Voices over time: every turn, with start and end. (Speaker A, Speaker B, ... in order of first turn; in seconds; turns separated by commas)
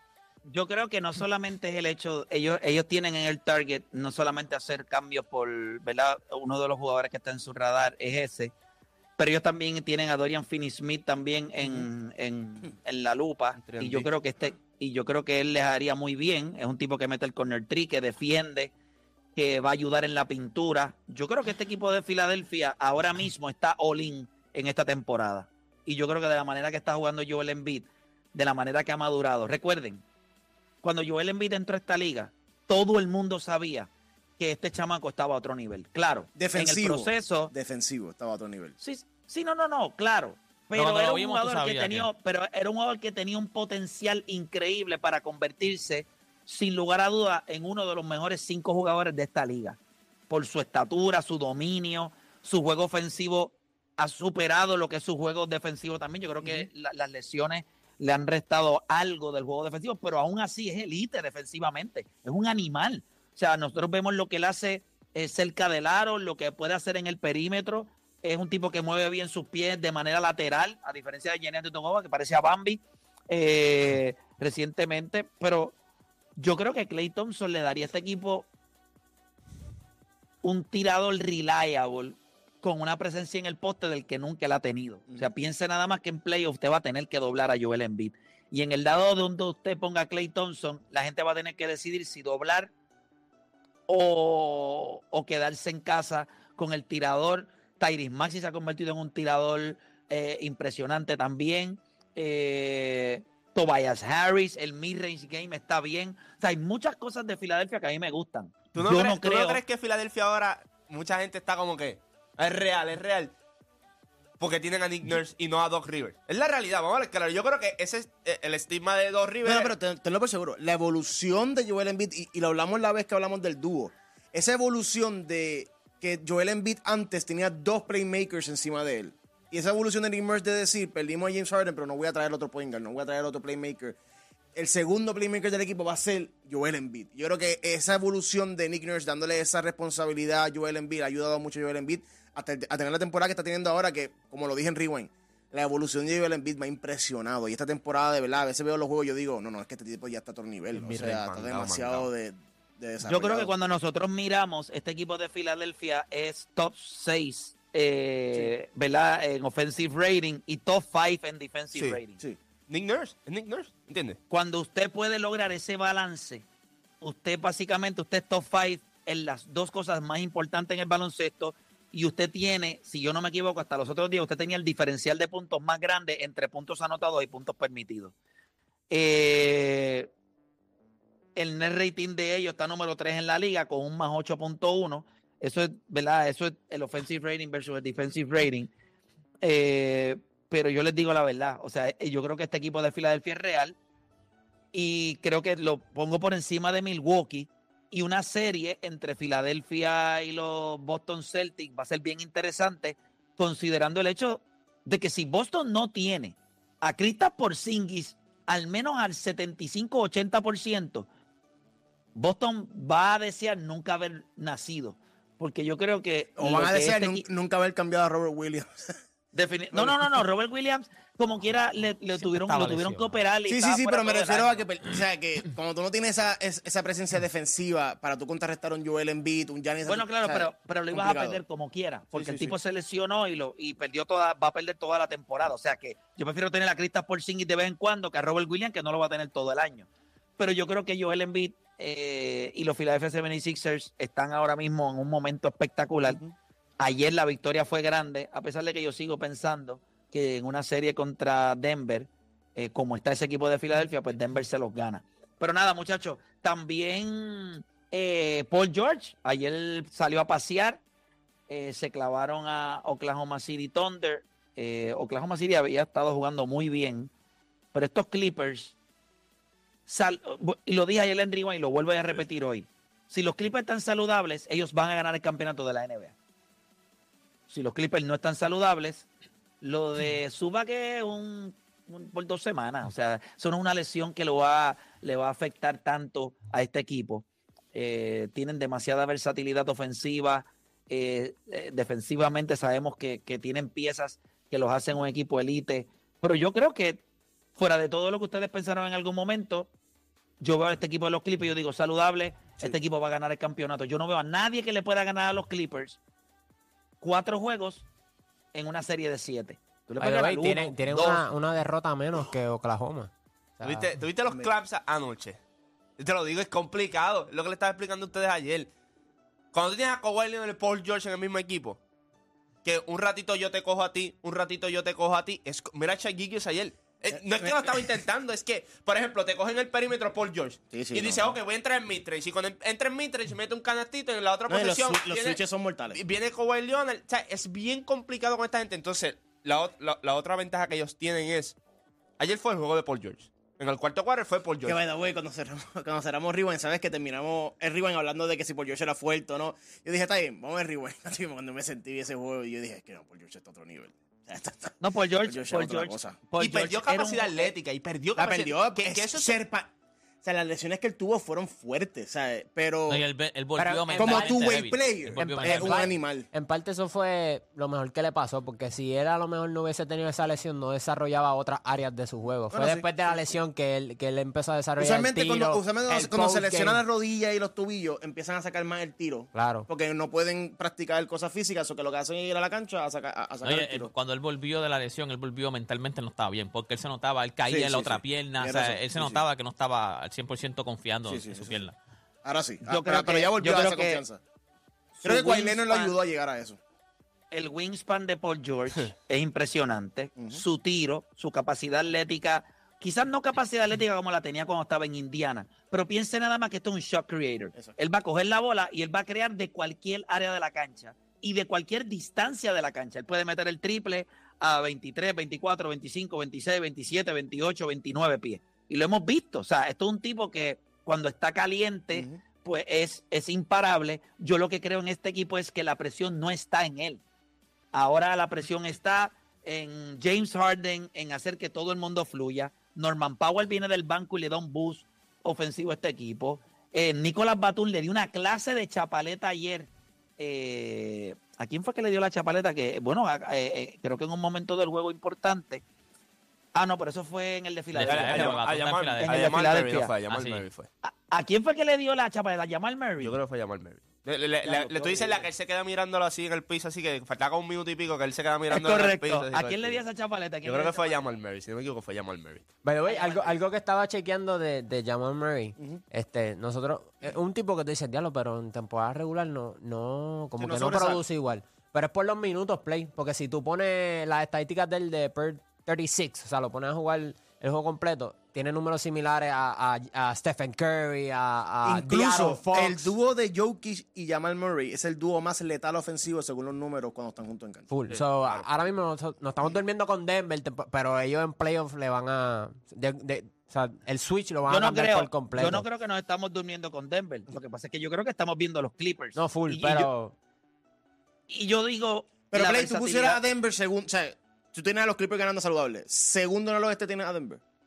Speaker A: 0.5-8.5, Speaker A: 9.2-18.7, Speaker B: 13.6-14.1, Speaker A: 19.4-30.0, Speaker A: 30.8-37.5, Speaker C: 36.4-38.8, Speaker A: 38.8-49.8, Speaker D: 40.8-42.1, Speaker A: 50.3-75.8, Speaker A: 76.4-78.5, Speaker A: 80.4-92.7, Speaker A: 93.9-109.6, Speaker B: 108.8-113.3, Speaker B: 114.4-119.8, Speaker C: 119.4-134.0, Speaker C: 134.6-153.5, Speaker B: 150.7-152.1, Speaker A: 153.0-162.2, Speaker B: 162.7-164.2, Speaker A: 164.3-166.4, Speaker A: 167.0-178.1, Speaker A: 178.9-180.1, Speaker A: 181.4-188.7, Speaker A: 189.4-193.8, Speaker A: 194.7-211.1, Speaker A: 212.2-217.2, Speaker C: 216.4-218.9, Speaker A: 219.3-224.6, Speaker C: 219.7-220.1, Speaker D: 222.2-223.2, Speaker C: 223.5-231.4, Speaker A: 229.9-239.9, Speaker B: 232.2-232.5, Speaker A: 240.4-246.2, Speaker A: 246.8-260.8, Speaker A: 261.5-267.1, Speaker A: 267.7-268.8, Speaker A: 269.9-276.1, Speaker A: 277.5-279.1, Speaker A: 279.6-297.0, Speaker A: 297.6-299.7, Speaker A: 300.4-306.0, Speaker A: 307.0-307.9, Speaker A: 308.5-311.2, Speaker E: 310.0-313.9, Speaker B: 313.6-315.4, Speaker B: 316.0-318.7, Speaker B: 319.5-321.8, Speaker B: 322.6-335.4, Speaker C: 327.1-327.9, Speaker C: 330.7-331.4, Speaker C: 334.5-336.0, Speaker B: 335.9-341.6, Speaker B: 342.2-344.8, Speaker C: 344.6-356.2, Speaker A: 354.8-357.5, Speaker B: 356.4-359.3, Speaker C: 358.2-359.7, Speaker C: 360.2-363.0, Speaker D: 362.9-365.9, Speaker E: 363.6-364.5, Speaker C: 364.0-366.3, Speaker E: 365.2-376.8, Speaker C: 372.5-373.4, Speaker C: 374.8-383.9, Speaker E: 379.3-379.7, Speaker D: 383.4-391.8, Speaker C: 387.5-389.2, Speaker C: 391.1-391.6, Speaker C: 392.2-394.2, Speaker A: 392.6-394.0, Speaker A: 395.0-396.0, Speaker C: 395.0-396.6, Speaker A: 397.3-427.0, Speaker C: 421.9-422.2, Speaker A: 427.7-445.6, Speaker A: 446.6-448.4, Speaker D: 447.7-449.4, Speaker B: 447.9-450.7, Speaker A: 449.0-449.9, Speaker D: 450.1-450.5, Speaker A: 450.8-453.2, Speaker B: 453.0-459.8, Speaker A: 454.4-455.3, Speaker A: 458.5-461.0, Speaker B: 460.4-462.4, Speaker E: 462.6-482.9, Speaker A: 462.9-463.4, Speaker C: 470.4-471.0, Speaker C: 481.7-487.7, Speaker A: 482.3-482.9, Speaker E: 487.7-495.7, Speaker B: 487.9-488.5, Speaker A: 494.5-499.9, Speaker E: 499.2-500.1, Speaker A: 501.3-503.2, Speaker C: 502.3-507.4